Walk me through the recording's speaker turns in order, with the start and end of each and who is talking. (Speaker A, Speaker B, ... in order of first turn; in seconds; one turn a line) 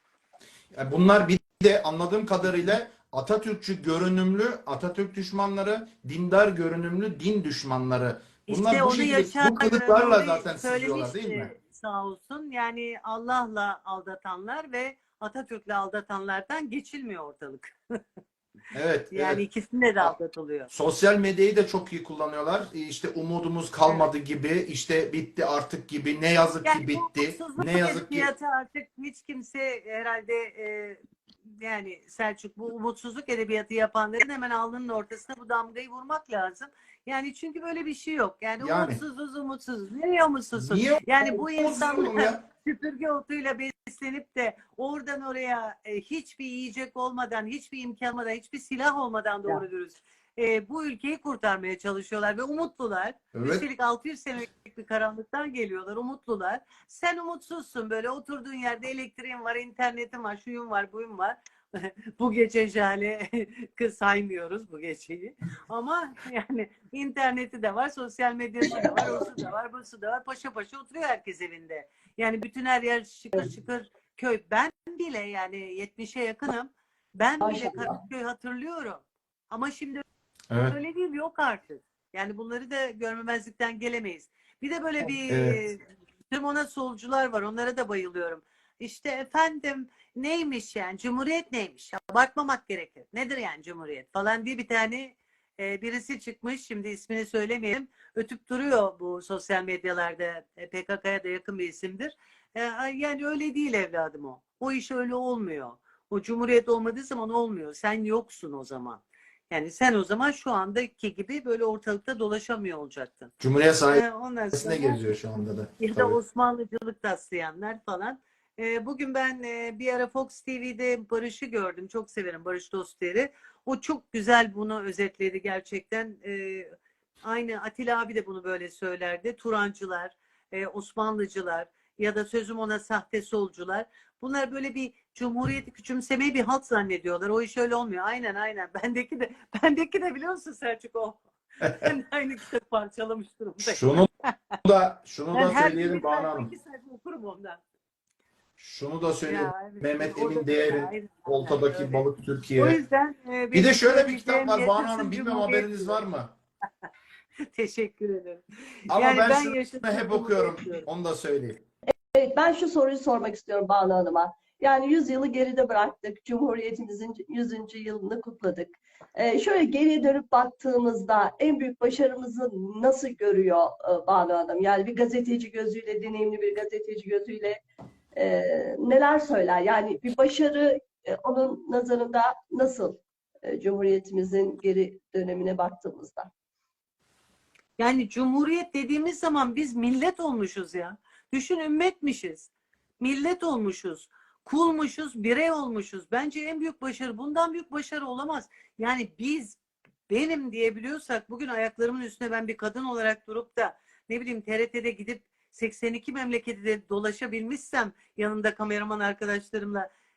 Speaker A: 0.7-11.5
Speaker B: 8.5-17.7
Speaker A: 18.7-19.4
Speaker B: 19.1-20.7
Speaker A: 20.7-28.3
Speaker B: 26.6-31.0
Speaker B: 31.6-80.0
Speaker A: 38.6-39.0
Speaker A: 40.5-42.4
Speaker A: 53.3-53.6
Speaker C: 68.7-69.2
Speaker C: 77.4-78.0
Speaker A: 80.5-80.8
Speaker B: 80.7-113.3
Speaker A: 85.3-85.6
Speaker A: 113.4-116.2
Speaker B: 113.9-115.0
Speaker B: 115.8-126.7
Speaker B: 127.2-144.6
Speaker A: 143.6-144.1
Speaker A: 144.6-146.5
Speaker B: 145.3-147.6
Speaker A: 148.6-152.8
Speaker B: 149.2-152.0
Speaker B: 152.6-156.0
Speaker A: 153.5-156.3
Speaker B: 157.5-160.9
Speaker A: 158.9-161.6
Speaker C: 161.9-177.6
Speaker C: 178.1-186.3
Speaker B: 187.8-199.6
Speaker B: 200.1-209.9